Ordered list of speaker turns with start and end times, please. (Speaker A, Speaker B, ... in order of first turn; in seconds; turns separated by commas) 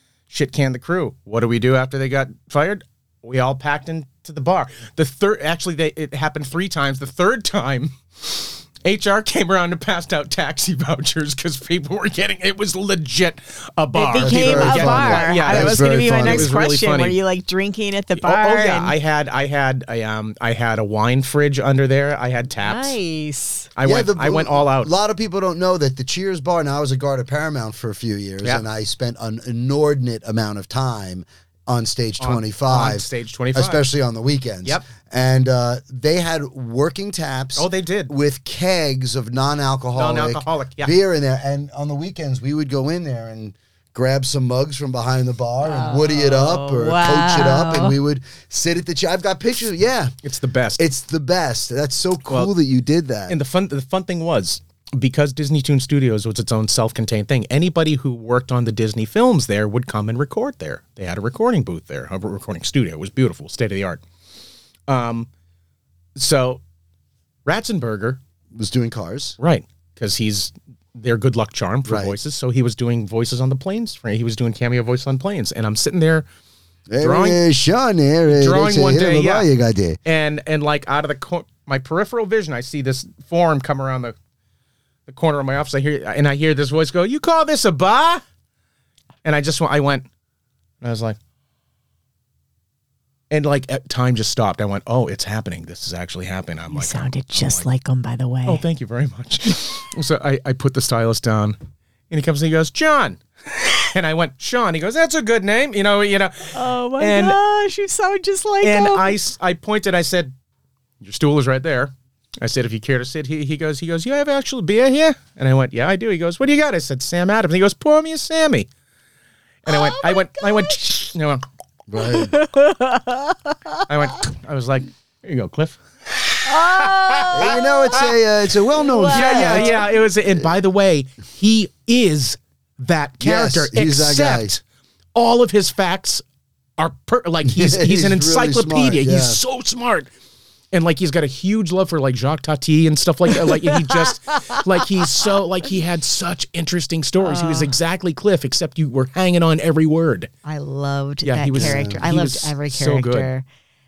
Speaker A: 0.3-17.2, Speaker B: 13.9-18.9, Speaker C: 14.2-16.5, Speaker A: 18.2-23.0, Speaker B: 22.6-23.7, Speaker A: 23.8-24.9, Speaker C: 23.8-50.1, Speaker A: 32.2-33.8, Speaker A: 37.6-38.1, Speaker A: 40.0-41.0, Speaker B: 45.6-48.0, Speaker A: 50.2-50.8, Speaker C: 50.8-53.4, Speaker A: 53.3-64.0, Speaker A: 64.9-65.3, Speaker A: 66.2-66.6, Speaker A: 67.5-68.2, Speaker C: 68.5-69.3, Speaker A: 69.4-76.3, Speaker C: 71.8-72.2, Speaker C: 76.9-80.0, Speaker A: 77.0-77.4, Speaker A: 78.3-79.5, Speaker A: 80.1-84.2, Speaker A: 85.1-88.2, Speaker A: 89.2-90.1, Speaker A: 90.8-91.2, Speaker A: 93.3-97.7, Speaker B: 96.7-98.6, Speaker A: 98.5-101.6, Speaker A: 102.1-107.4, Speaker B: 106.5-109.2, Speaker A: 108.6-110.3, Speaker A: 111.0-118.7, Speaker A: 119.7-121.4, Speaker B: 119.7-120.8, Speaker C: 121.9-122.3, Speaker B: 122.0-123.9, Speaker A: 123.9-128.2, Speaker B: 126.5-128.0, Speaker C: 127.3-129.8, Speaker B: 128.8-129.8, Speaker A: 129.1-134.6, Speaker C: 133.2-134.5, Speaker A: 135.2-136.2, Speaker A: 136.8-140.1, Speaker C: 137.4-139.4, Speaker A: 140.7-150.3, Speaker B: 143.4-144.6, Speaker B: 147.2-147.7, Speaker B: 150.4-153.4, Speaker A: 151.2-153.3, Speaker C: 151.5-152.0